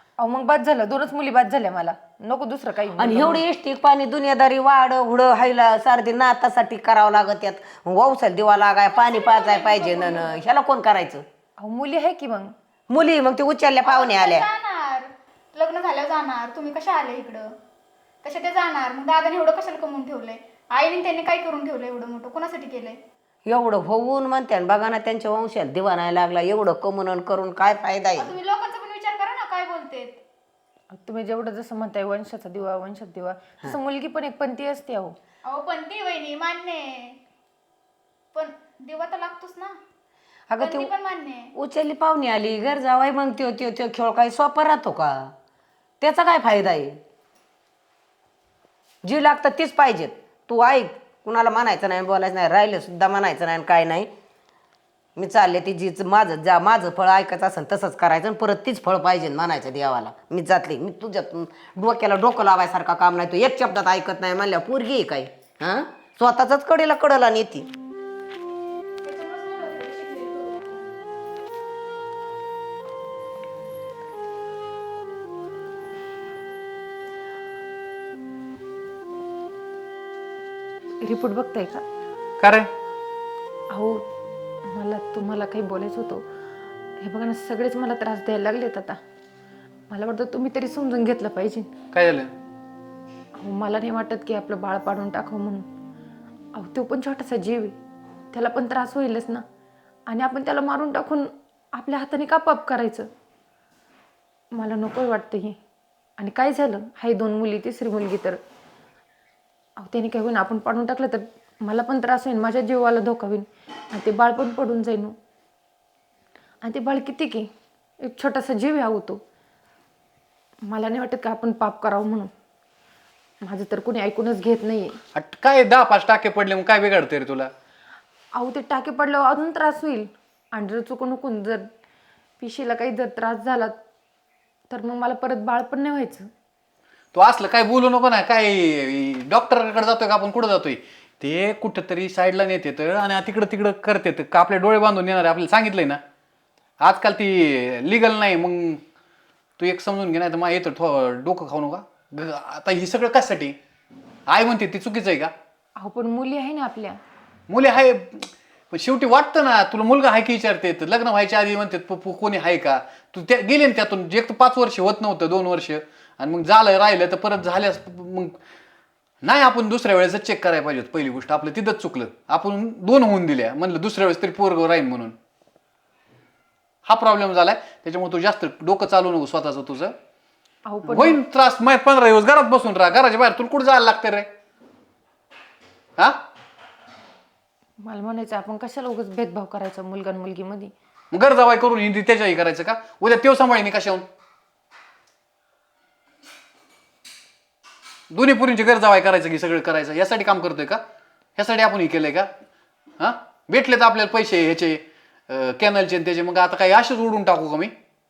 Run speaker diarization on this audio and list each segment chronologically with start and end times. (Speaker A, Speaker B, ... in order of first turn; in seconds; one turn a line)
Speaker A: 0.2-3.4
Speaker B: 3.0-11.2
Speaker C: 8.9-10.2
Speaker A: 11.6-12.5
Speaker B: 12.9-14.4
Speaker C: 13.9-17.5
Speaker C: 18.2-23.0
Speaker B: 23.4-28.3
Speaker C: 28.2-30.2
Speaker A: 30.9-35.2
Speaker C: 35.4-37.2
Speaker C: 38.3-39.7
Speaker B: 40.5-40.9
Speaker C: 40.6-41.5
Speaker B: 41.5-45.3
Speaker B: 46.0-47.0
Speaker B: 49.0-54.1
Speaker B: 55.1-67.7
Speaker C: 69.0-70.7
Speaker A: 81.0-81.8
Speaker D: 82.4-82.7
Speaker A: 83.7-84.0
Speaker A: 84.7-86.2
Speaker A: 87.0-89.0
Speaker A: 89.9-91.7
Speaker D: 91.9-92.3
Speaker A: 93.4-95.7
Speaker A: 96.5-97.8
Speaker A: 98.3-99.4
Speaker A: 100.1-103.1
Speaker A: 104.5-105.6
Speaker A: 106.2-108.4
Speaker A: 109.8-115.2
Speaker A: 116.6-117.5
Speaker A: 118.0-119.2
Speaker A: 120.7-122.3
Speaker A: 123.4-125.0
Speaker D: 125.1-127.5
Speaker A: 128.3-131.7
Speaker A: 132.4-133.8
Speaker A: 134.7-136.3
Speaker D: 137.1-146.0
Speaker D: 146.8-148.8
Speaker D: 149.6-153.6
Speaker D: 154.3-155.3
Speaker A: 155.8-157.0
Speaker D: 157.5-168.4
Speaker D: 169.2-175.1
Speaker D: 176.8-179.9
Speaker A: 180.7-181.2
Speaker D: 180.8-184.3
Speaker A: 187.8-190.7
Speaker D: 191.1-194.0
Speaker D: 198.1-200.8
Speaker D: 201.4-202.3
Speaker D: 203.0-207.7